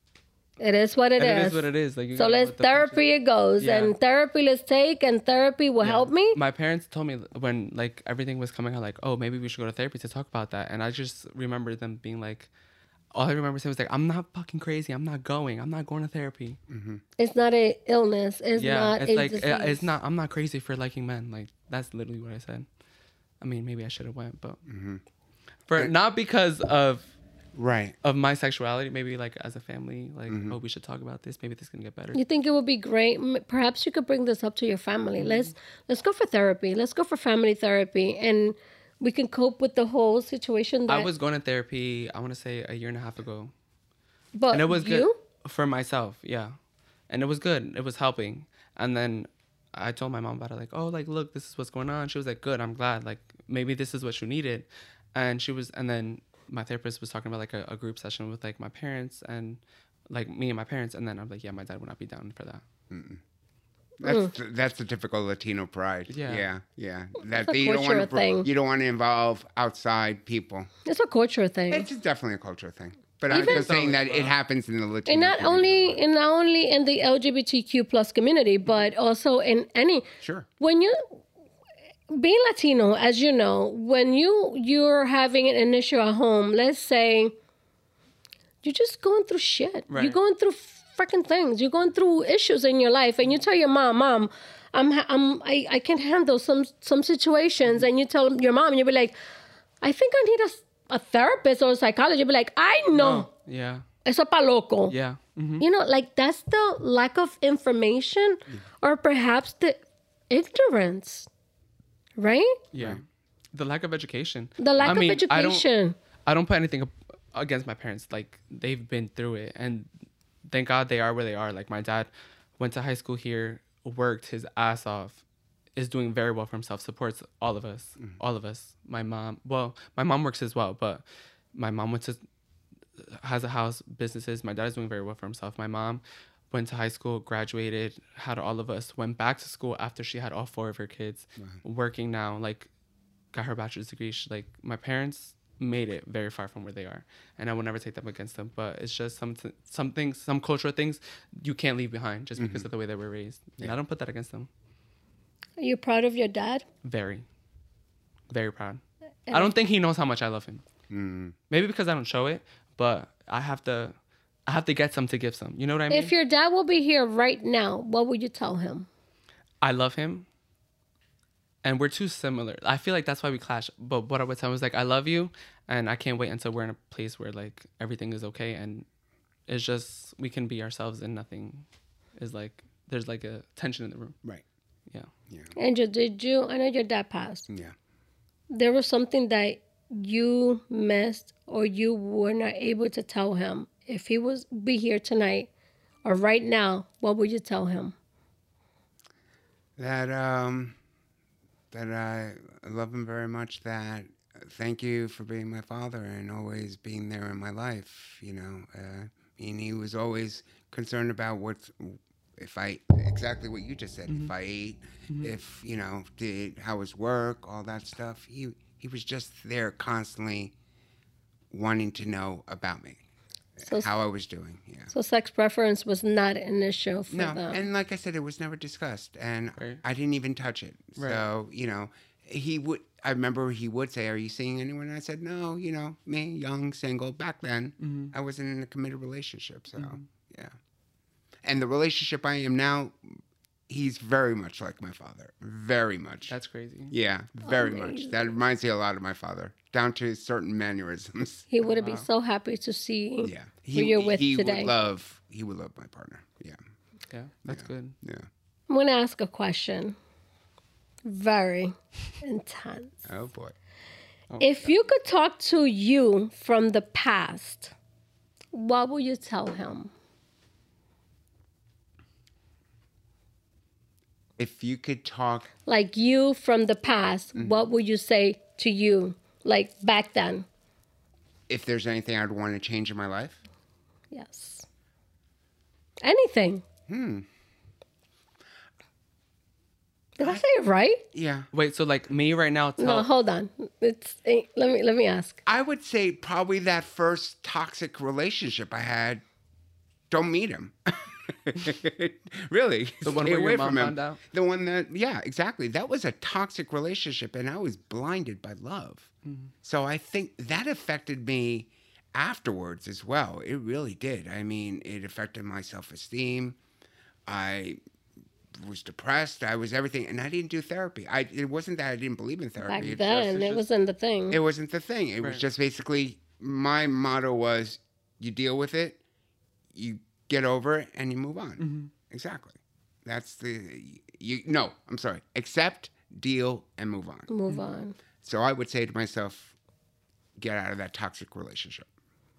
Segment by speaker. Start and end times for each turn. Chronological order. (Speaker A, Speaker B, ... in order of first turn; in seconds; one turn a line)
Speaker A: 0.6-6.4
Speaker B: 1.2-3.0
Speaker B: 3.6-3.9
Speaker B: 5.8-12.5
Speaker B: 13.1-16.6
Speaker C: 16.7-17.0
Speaker A: 17.2-19.9
Speaker B: 18.6-22.7
Speaker B: 23.4-24.6
Speaker C: 24.7-25.0
Speaker B: 25.7-27.1
Speaker C: 27.6-28.0
Speaker B: 28.0-32.2
Speaker C: 30.3-30.6
Speaker A: 32.1-41.1
Speaker B: 35.2-35.5
Speaker B: 40.9-43.5
Speaker A: 44.4-45.2
Speaker B: 44.5-46.6
Speaker B: 47.1-62.6
Speaker C: 62.9-63.2
Speaker C: 64.0-70.7
Speaker A: 64.0-64.3
Speaker B: 66.1-66.5
Speaker A: 67.3-68.5
Speaker A: 70.8-71.9
Speaker C: 71.7-76.0
Speaker B: 73.3-74.3
Speaker A: 73.3-73.7
Speaker A: 75.1-80.1
Speaker C: 80.2-80.5
Speaker A: 80.6-81.2
Speaker A: 82.1-87.3
Speaker A: 88.6-99.2
Speaker B: 89.9-90.2
Speaker A: 99.8-103.3
Speaker B: 103.0-103.8
Speaker A: 104.0-105.0
Speaker B: 104.9-105.7
Speaker A: 105.6-111.3
Speaker A: 112.2-112.6
Speaker B: 112.7-113.0
Speaker B: 113.5-115.7
Speaker A: 114.6-116.0
Speaker B: 116.3-119.9
Speaker B: 120.5-125.2
Speaker B: 125.8-132.2
Speaker B: 133.0-142.7
Speaker B: 143.3-154.5
Speaker C: 152.4-152.7
Speaker A: 155.6-156.7
Speaker B: 156.8-157.2
Speaker B: 158.3-160.6
Speaker A: 159.3-159.5
Speaker C: 160.9-161.3
Speaker B: 161.5-163.9
Speaker B: 164.5-166.1
Speaker A: 165.9-168.9
Speaker B: 169.6-170.3
Speaker B: 171.6-178.9
Speaker B: 179.5-181.7
Speaker B: 182.2-184.2
Speaker C: 185.3-185.5
Speaker A: 185.6-187.5
Speaker C: 187.5-187.7
Speaker A: 188.5-195.5
Speaker A: 196.0-197.9
Speaker C: 199.8-200.8
Speaker C: 201.7-220.6
Speaker C: 221.5-223.0
Speaker C: 223.6-224.9
Speaker A: 224.9-227.6
Speaker C: 227.1-240.6
Speaker B: 229.6-229.8
Speaker B: 231.0-231.2
Speaker B: 237.8-238.1
Speaker B: 239.8-240.0
Speaker C: 241.4-243.2
Speaker C: 243.7-246.3
Speaker B: 246.3-246.9
Speaker C: 246.9-251.5
Speaker A: 247.4-248.3
Speaker A: 251.5-254.7
Speaker B: 251.6-252.1
Speaker C: 253.2-256.6
Speaker B: 257.1-257.9
Speaker C: 257.5-258.3
Speaker A: 258.7-260.0
Speaker A: 261.1-263.1
Speaker C: 263.1-263.6
Speaker A: 264.4-267.7
Speaker A: 268.5-269.9
Speaker C: 274.4-275.5
Speaker A: 275.7-280.5
Speaker C: 277.4-277.7
Speaker C: 281.5-283.4
Speaker A: 284.1-284.7
Speaker A: 286.0-286.6
Speaker C: 286.9-287.3
Speaker A: 290.2-291.0
Speaker C: 291.1-291.5
Speaker B: 291.5-293.1
Speaker A: 292.8-295.4
Speaker C: 295.5-299.2
Speaker C: 300.1-309.1
Speaker B: 303.1-304.2
Speaker B: 309.2-309.5
Speaker C: 309.6-316.6
Speaker C: 317.3-317.8
Speaker C: 318.6-323.5
Speaker A: 322.6-324.4
Speaker B: 323.2-323.6
Speaker C: 324.3-329.0
Speaker C: 329.7-337.3
Speaker B: 331.6-331.9
Speaker A: 337.3-338.0
Speaker C: 338.2-339.5
Speaker C: 340.4-341.9